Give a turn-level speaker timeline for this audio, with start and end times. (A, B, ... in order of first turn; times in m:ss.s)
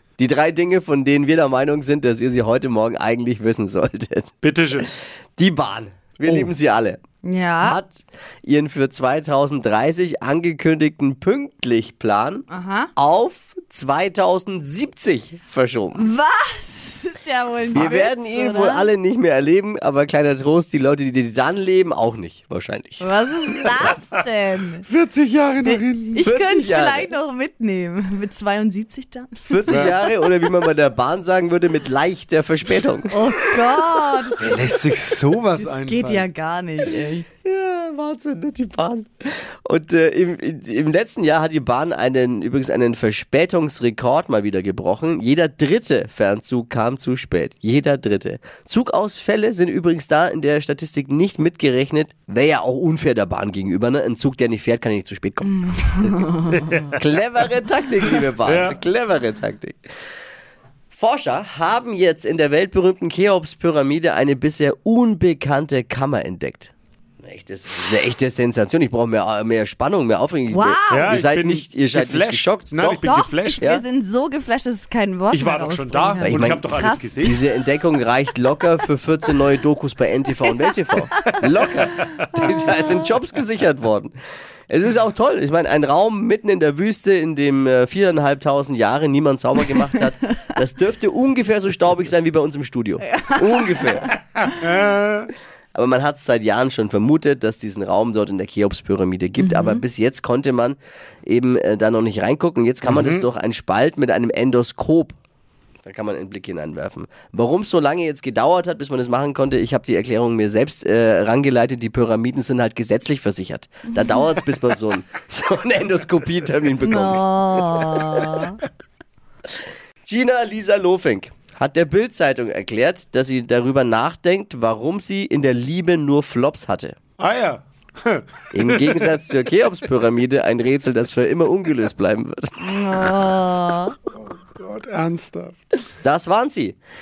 0:00.2-0:04.3 A
0:04.4-0:04.9 B
0:05.4-0:07.0 A
0:07.2-0:07.8 C
0:07.6-0:16.1 A
0:12.5-0:12.9 C
0:15.9-0:18.9 C
0:17.7-0:23.0 A
0:23.0-0:24.9 C
0:23.6-0:23.9 A
0:24.9-0:26.2 B
0:25.6-0:29.9 C
0:26.2-0:27.1 A
0:29.5-0:33.3 A
0:29.7-0:30.0 B
0:33.1-0:34.7 C
0:34.4-0:36.3 B
0:35.5-0:37.2 C
0:37.0-0:56.3 A
0:56.5-0:57.0 B
0:56.9-0:59.8 A
0:58.1-0:58.8 B
1:00.9-1:13.8 A
1:10.5-1:11.0 C
1:10.9-1:13.7 B
1:13.0-1:17.3 C
1:15.3-1:17.4 B
1:16.2-1:24.1 A
1:21.8-1:22.6 B
1:22.3-1:23.0 C
1:24.7-1:34.1 A
1:33.2-1:33.9 C
1:34.4-1:35.3 B
1:35.7-1:45.2 A
1:42.8-1:43.2 B
1:45.8-1:58.4 A
1:56.8-1:58.6 C
2:00.0-2:07.0 A
2:07.2-2:09.3 B
2:08.5-2:13.0 A
2:12.6-2:14.0 C
2:14.0-2:15.6 B
2:16.0-2:16.8 A